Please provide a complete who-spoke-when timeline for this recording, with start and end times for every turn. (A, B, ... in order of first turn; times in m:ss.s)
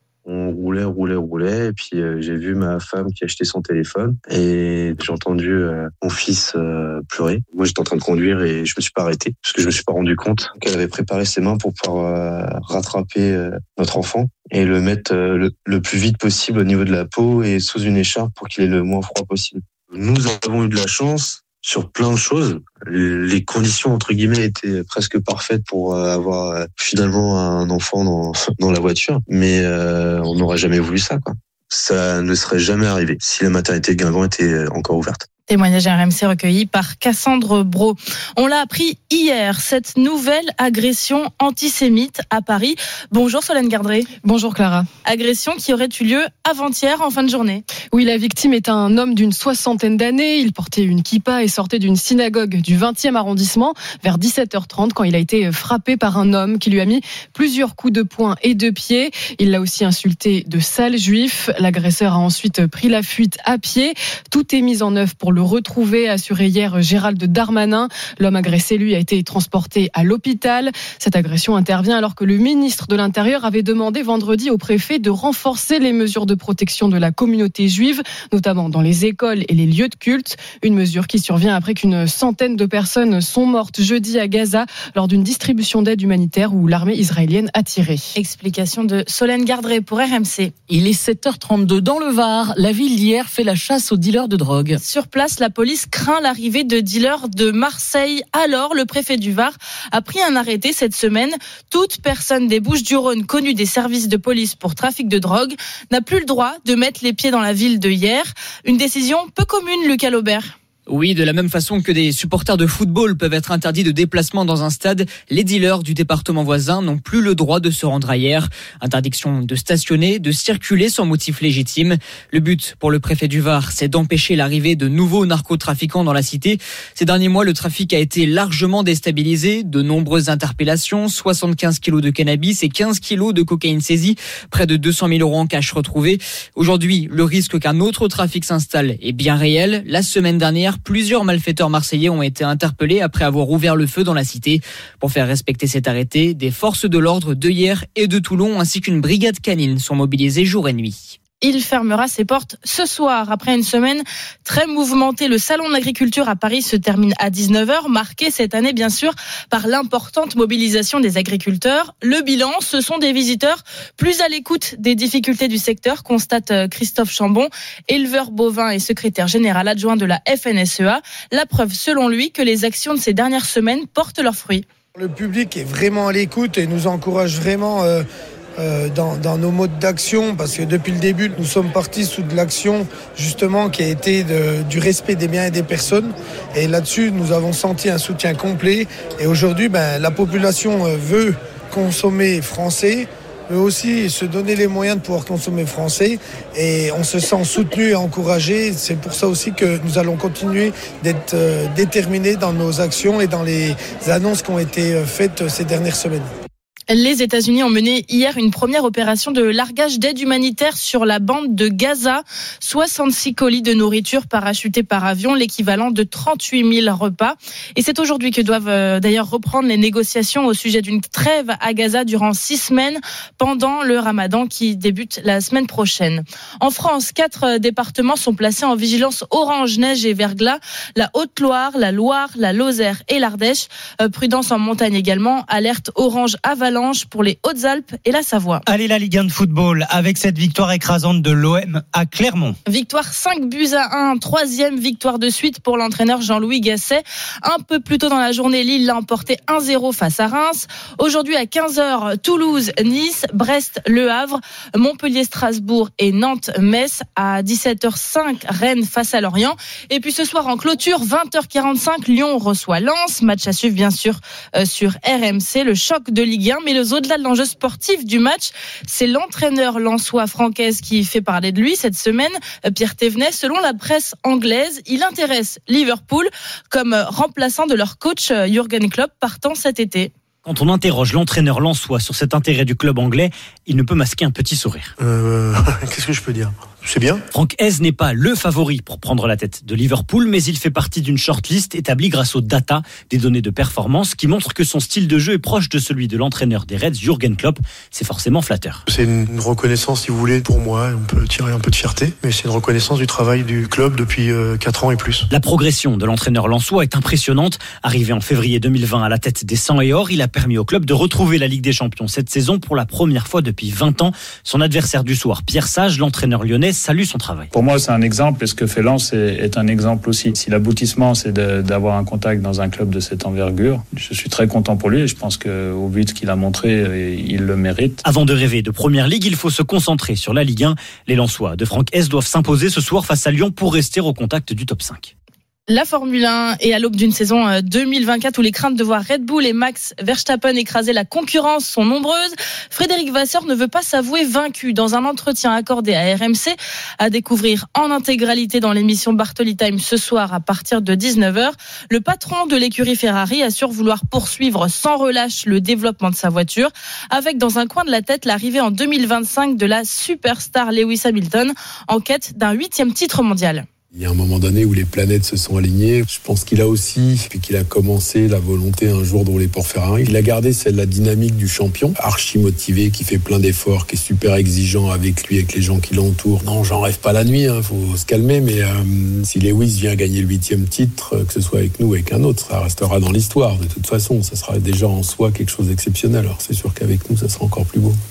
0:00.2-0:35.2 A
0:35.5-0:44.1 B
0:44.2-0:44.9 C
0:45.0-0:47.6 B
0:47.9-1:28.1 C
1:28.1-1:30.5 B
1:30.7-1:34.8 D
1:34.8-1:50.5 B
1:50.9-2:31.2 E
2:31.4-2:54.6 B
2:55.0-2:58.0 F
2:58.6-3:26.3 F
3:26.9-3:58.6 B
3:58.7-4:02.6 G
4:02.7-4:40.1 B
4:40.4-4:44.9 H
4:45.0-4:47.2 I
4:47.3-4:58.8 H
4:58.9-5:05.3 I
5:05.3-5:17.5 H
5:17.5-5:28.0 J
5:28.0-5:35.1 H
5:35.7-6:03.6 B
6:03.9-6:28.0 K